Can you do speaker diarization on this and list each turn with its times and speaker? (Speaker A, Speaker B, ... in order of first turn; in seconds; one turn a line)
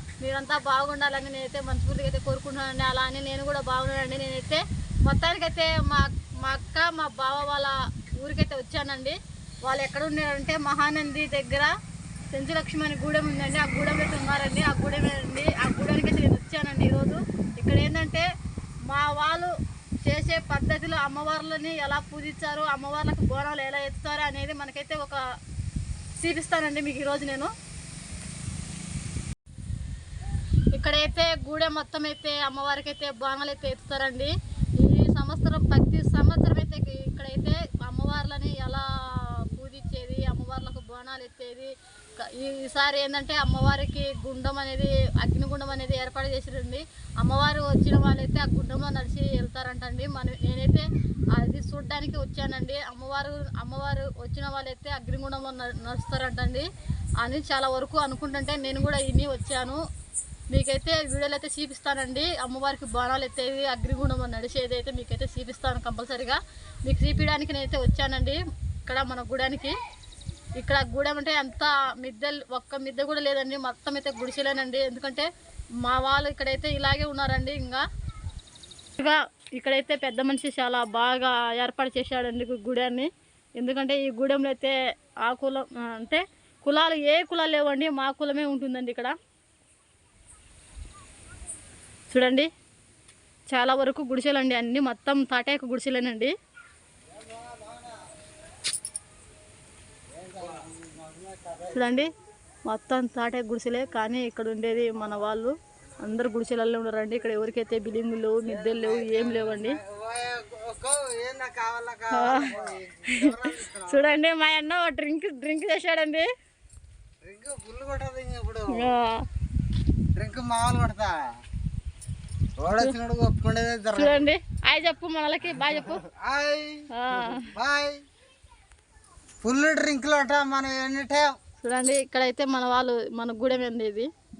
Speaker A: 0.2-11.7
Speaker A: 12.3-18.2
Speaker A: 18.9-25.2
Speaker A: 26.2-27.5
Speaker A: 30.7-56.6
Speaker A: 57.2-59.8
Speaker A: 60.5-69.7
Speaker A: 70.5-75.3
Speaker A: 75.8-77.8
Speaker A: 79.0-89.2
Speaker A: 92.1-92.5
Speaker A: 93.5-96.3
Speaker B: 97.1-98.0
Speaker B: 100.1-101.8
Speaker A: 101.7-102.1
Speaker A: 102.7-109.8
Speaker B: 108.5-114.2
Speaker A: 112.1-112.5
Speaker A: 113.1-116.3
Speaker B: 117.2-118.9
Speaker A: 118.7-119.2
Speaker B: 120.1-121.2
Speaker B: 122.6-124.2
Speaker A: 123.9-126.0
Speaker B: 126.0-128.0
Speaker A: 126.9-127.5
Speaker B: 129.4-131.3
Speaker A: 131.6-134.1